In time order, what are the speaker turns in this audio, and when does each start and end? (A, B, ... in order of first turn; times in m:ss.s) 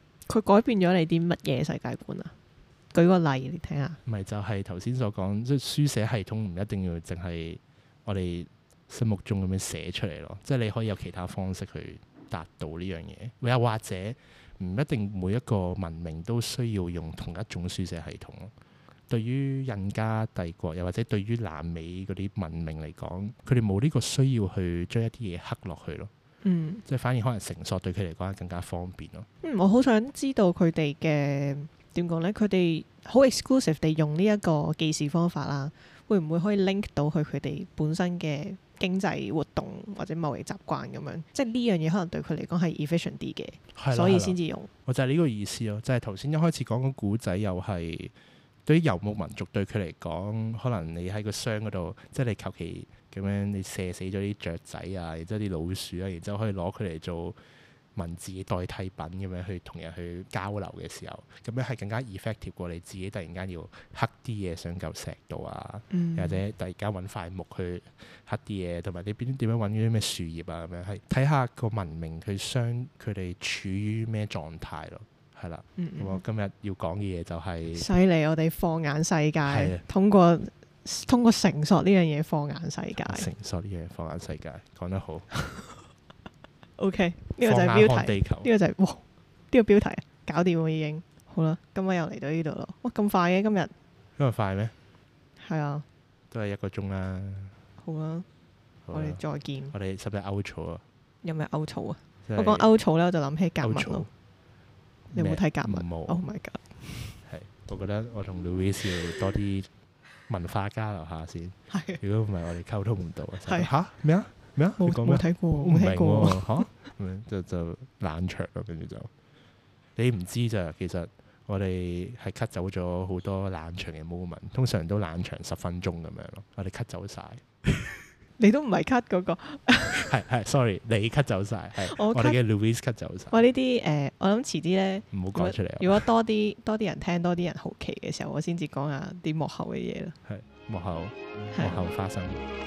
0:00.3-0:02.3 A
0:02.9-0:04.0 A
0:04.0-0:18.5 B
0:19.1-0:26.1 B
0:26.4-0:26.8 A
0:26.8-0:29.3 B
0:29.4-0:44.7 A
0:43.7-0:48.1 B
0:48.6-0:57.4 B
0:57.9-1:17.9 B
1:05.9-1:06.4 A
1:15.8-1:16.2 A
1:17.7-1:23.3 A
1:19.4-1:19.8 B
1:23.0-1:25.3 B
1:25.3-1:25.7 A
1:26.8-1:33.7 A
1:27.4-1:28.5 B
1:34.2-1:34.7 B
1:35.4-1:35.8 A
1:36.3-1:37.5 B
1:37.8-1:38.2 A
1:38.8-1:39.2 B
1:38.9-1:39.7 A
1:39.7-1:40.8 B
1:41.2-1:44.1 A
1:42.2-1:42.7 B
1:43.6-1:44.1 B
1:45.1-1:46.2 B
1:45.1-1:47.2 A
1:47.2-1:49.7 B
1:50.3-1:59.1 B
1:51.7-1:52.0 A
1:53.4-1:53.7 A
1:54.8-1:56.7 A
2:00.0-2:08.0 B
2:08.4-2:10.2 A
2:09.9-2:13.4 B
2:11.8-2:12.4 A
2:13.3-2:20.2 A
2:15.1-2:16.0 B
2:20.2-2:22.4 B
2:21.5-2:21.8 A